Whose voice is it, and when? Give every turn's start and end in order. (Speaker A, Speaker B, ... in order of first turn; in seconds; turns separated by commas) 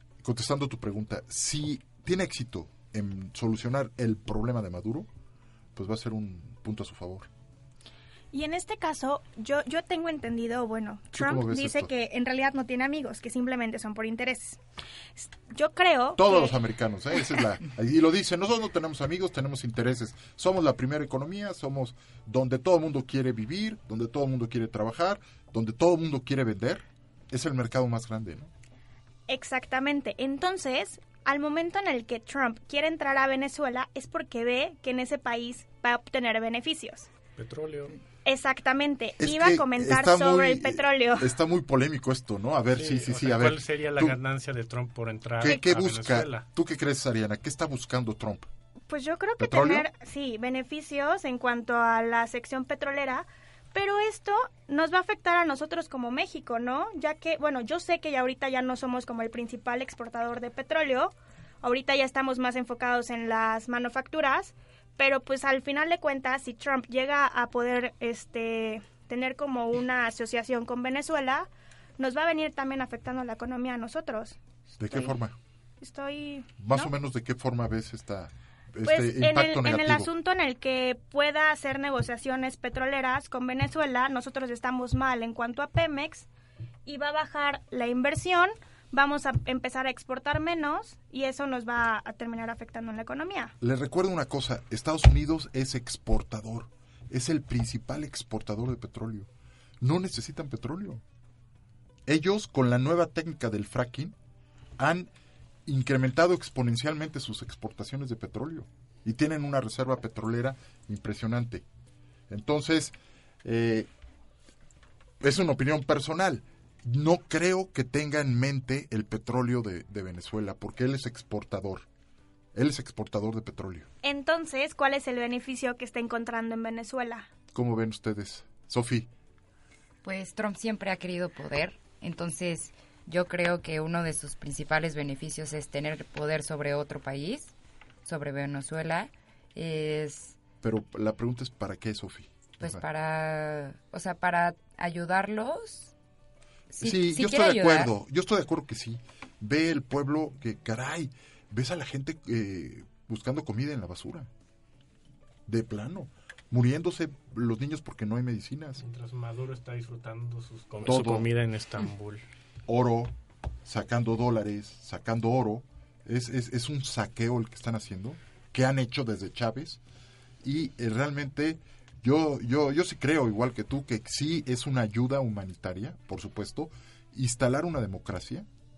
Speaker A: 0.2-5.1, Speaker A: 5.8-7.3, Speaker B: 8.3-14.6, Speaker A: 11.1-11.9, Speaker B: 15.2-16.6, Speaker A: 16.2-28.5, Speaker B: 29.3-37.1, Speaker C: 37.4-38.0, Speaker B: 38.2-41.3, Speaker A: 39.2-44.2, Speaker C: 42.8-46.5, Speaker A: 45.4-48.5, Speaker B: 48.9-75.1, Speaker A: 49.4-49.9, Speaker A: 74.8-75.3, Speaker B: 75.8-76.9, Speaker A: 76.6-80.1, Speaker B: 78.8-86.3, Speaker B: 86.9-93.5, Speaker A: 93.6-99.3, Speaker A: 99.8-101.0, Speaker A: 102.1-104.2, Speaker A: 104.8-105.1, Speaker A: 105.7-111.7, Speaker A: 112.3-113.9, Speaker A: 115.2-121.9, Speaker A: 122.5-123.9, Speaker B: 124.0-127.3, Speaker A: 127.5-129.1, Speaker D: 130.0-137.5, Speaker D: 138.1-140.4, Speaker A: 140.6-142.8, Speaker D: 142.6-145.9, Speaker D: 146.7-147.9, Speaker A: 146.8-154.3, Speaker A: 155.5-158.8, Speaker C: 158.8-162.2, Speaker A: 160.8-161.3, Speaker A: 162.7-163.1, Speaker A: 163.7-169.8, Speaker A: 170.4-178.5